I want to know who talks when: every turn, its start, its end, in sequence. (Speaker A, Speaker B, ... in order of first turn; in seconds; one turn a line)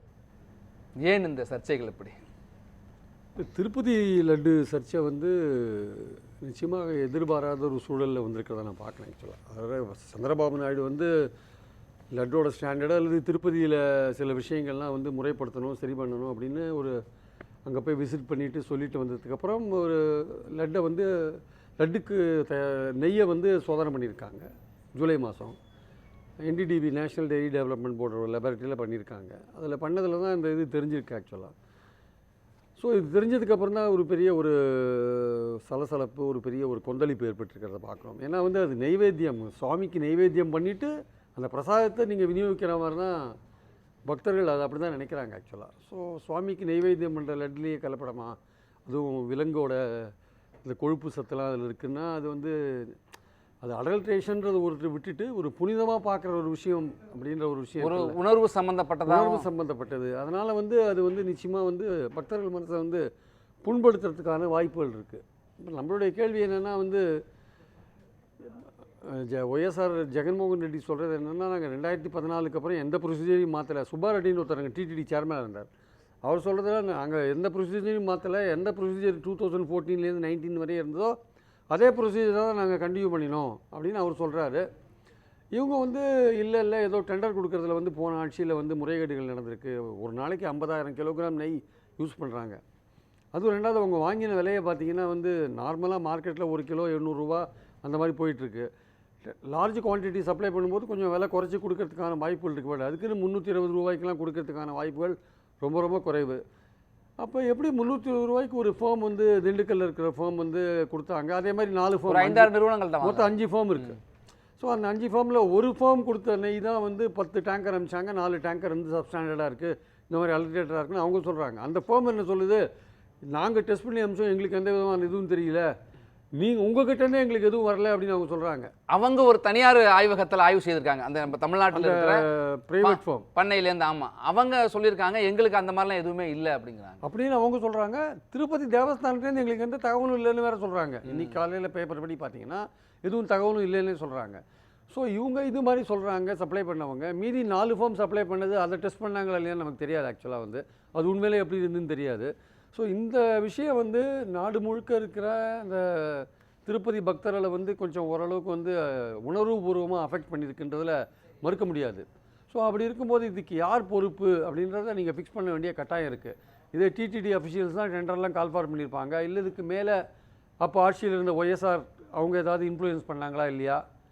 Speaker A: 1.0-2.2
Speaker B: 3.4-11.1
Speaker B: 12.1-17.0
Speaker B: 17.6-25.6
Speaker B: 26.4-31.5
Speaker B: 32.8-43.4
Speaker B: 44.1-48.4
Speaker B: 48.9-50.1
Speaker B: 50.6-53.0
Speaker B: 53.6-58.2
Speaker A: 57.8-59.5
Speaker B: 59.0-63.0
Speaker B: 63.6-67.0
Speaker B: 69.0-75.7
Speaker B: 76.2-81.1
Speaker B: 81.7-84.6
Speaker B: 85.5-92.6
Speaker B: 93.3-98.7
Speaker B: 99.2-106.4
Speaker B: 107.2-114.0
Speaker A: 112.1-113.4
Speaker B: 114.6-122.6
Speaker B: 123.3-125.7
Speaker B: 126.4-128.7
Speaker A: 128.9-132.2
Speaker B: 131.7-133.2
Speaker A: 132.8-137.0
Speaker B: 137.0-144.4
Speaker A: 141.1-141.4
Speaker B: 144.9-170.0
Speaker B: 170.6-173.8